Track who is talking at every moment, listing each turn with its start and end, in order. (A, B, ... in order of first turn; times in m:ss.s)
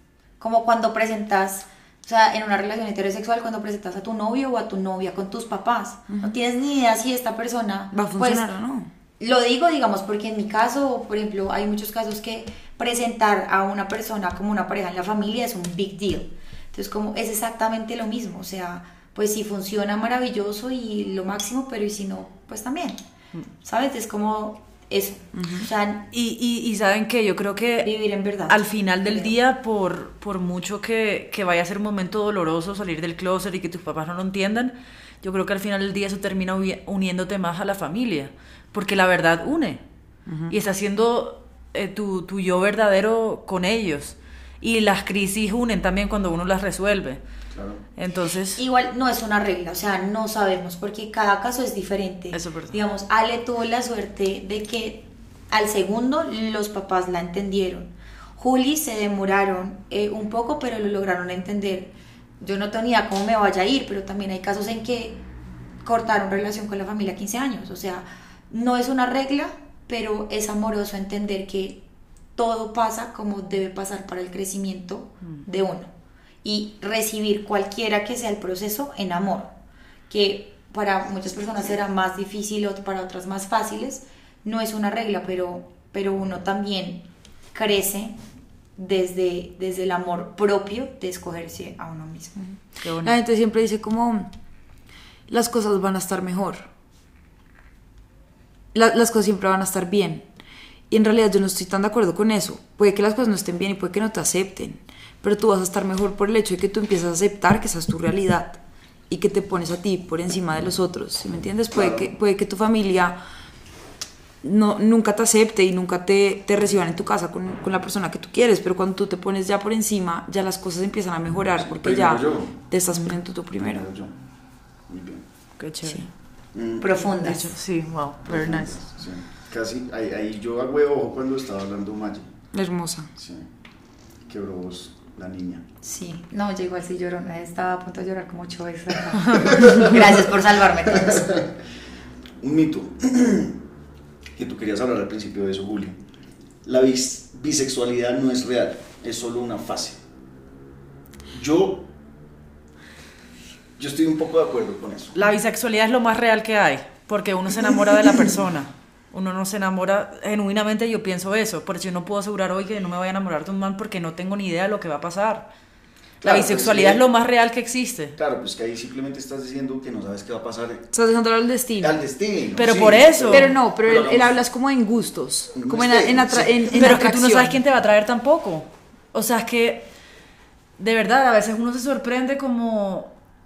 0:00.4-0:08.5 A
0:06.1-0:06.4 B
0:07.9-0:08.9 B
0:09.2-0:23.0 A
0:23.6-0:26.1 A
0:25.4-0:25.7 B
0:26.1-0:27.9 C
0:27.8-0:29.3 A
0:28.5-0:39.8 C
0:40.3-0:40.6 B
0:40.5-0:47.2 C
0:47.5-0:47.8 D
0:48.0-0:48.6 C
0:48.6-1:05.2 A
0:52.3-0:52.7 C
1:05.8-1:11.8 A
1:12.4-1:15.9 A
1:16.4-1:19.5 A
1:20.1-1:28.2 A
1:28.8-1:32.6 A
1:32.8-1:33.2 C
1:33.0-1:34.3 B
1:35.3-1:36.7 B
1:38.7-1:40.3 B
1:40.9-1:53.2 B
1:51.7-1:52.1 D
1:54.4-2:03.8 B
2:01.6-2:02.6 D
2:03.6-2:04.2 D
2:04.9-2:05.3 D
2:05.6-2:06.0 C
2:06.5-2:06.9 D
2:06.8-2:07.5 A
2:07.2-2:08.8 C
2:08.2-2:12.3 D
2:12.5-2:13.1 B
2:13.2-2:13.5 D
2:14.3-2:15.6 D
2:15.8-2:21.4 A
2:19.3-2:20.1 D
2:20.8-2:21.6 D
2:22.4-2:23.6 D
2:24.4-2:26.0 D
2:26.6-2:30.0 D
2:31.3-2:31.9 D
2:33.8-2:35.2 D
2:35.2-2:45.5 C
2:46.2-2:47.0 D
2:46.2-2:48.2 C
2:48.2-2:50.9 D
2:50.9-2:52.0 B
2:51.8-2:54.4 D
2:52.6-2:53.5 C
2:53.3-2:57.6 B
2:55.6-2:56.8 D
2:56.7-2:59.9 C
3:00.8-3:03.1 C